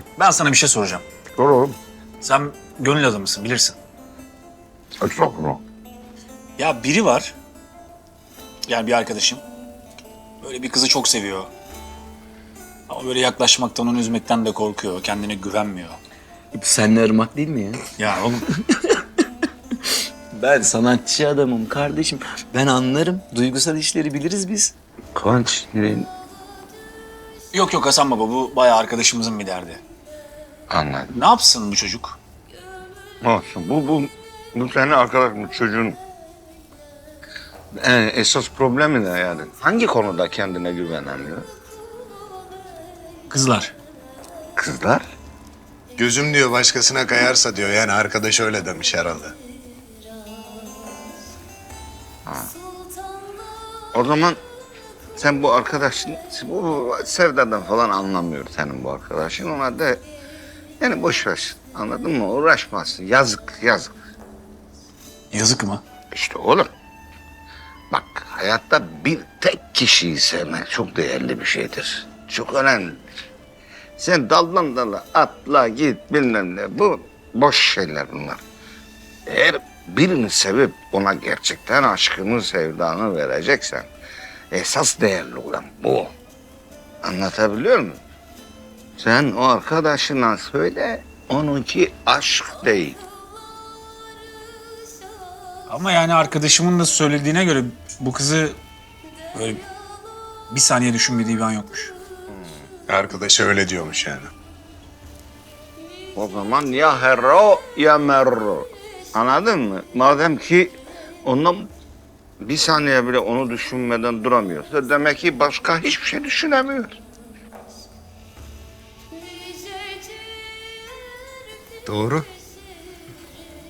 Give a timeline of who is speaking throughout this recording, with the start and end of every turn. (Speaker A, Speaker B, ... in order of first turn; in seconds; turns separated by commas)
Speaker A: 0.1-1.0, Speaker B: 1.4-1.7, Speaker A: 2.2-3.8, Speaker B: 5.0-5.6, Speaker A: 6.6-7.3, Speaker A: 8.7-9.4, Speaker A: 10.4-11.5, Speaker A: 12.9-16.0, Speaker C: 16.5-17.8, Speaker A: 18.0-18.5, Speaker C: 20.3-24.7, Speaker B: 25.1-26.1, Speaker A: 27.5-29.8, Speaker B: 30.7-31.1, Speaker A: 31.1-32.2, Speaker B: 33.2-36.0, Speaker B: 37.8-41.5, Speaker A: 43.3-43.7, Speaker B: 44.6-45.0, Speaker D: 46.0-49.3, Speaker B: 52.2-52.5, Speaker B: 53.9-54.4, Speaker B: 55.2-60.0, Speaker B: 60.8-63.9, Speaker A: 65.3-65.8, Speaker B: 66.1-66.7, Speaker B: 67.9-73.0, Speaker B: 74.0-78.4, Speaker B: 79.3-83.9, Speaker B: 84.5-86.1, Speaker B: 87.0-88.0, Speaker B: 89.0-93.0, Speaker A: 95.7-98.6, Speaker A: 99.3-99.6, Speaker A: 100.5-101.9, Speaker B: 102.3-102.6, Speaker D: 102.9-104.3, Speaker B: 106.2-110.7, Speaker B: 111.2-111.7, Speaker B: 112.4-116.9, Speaker D: 121.9-122.2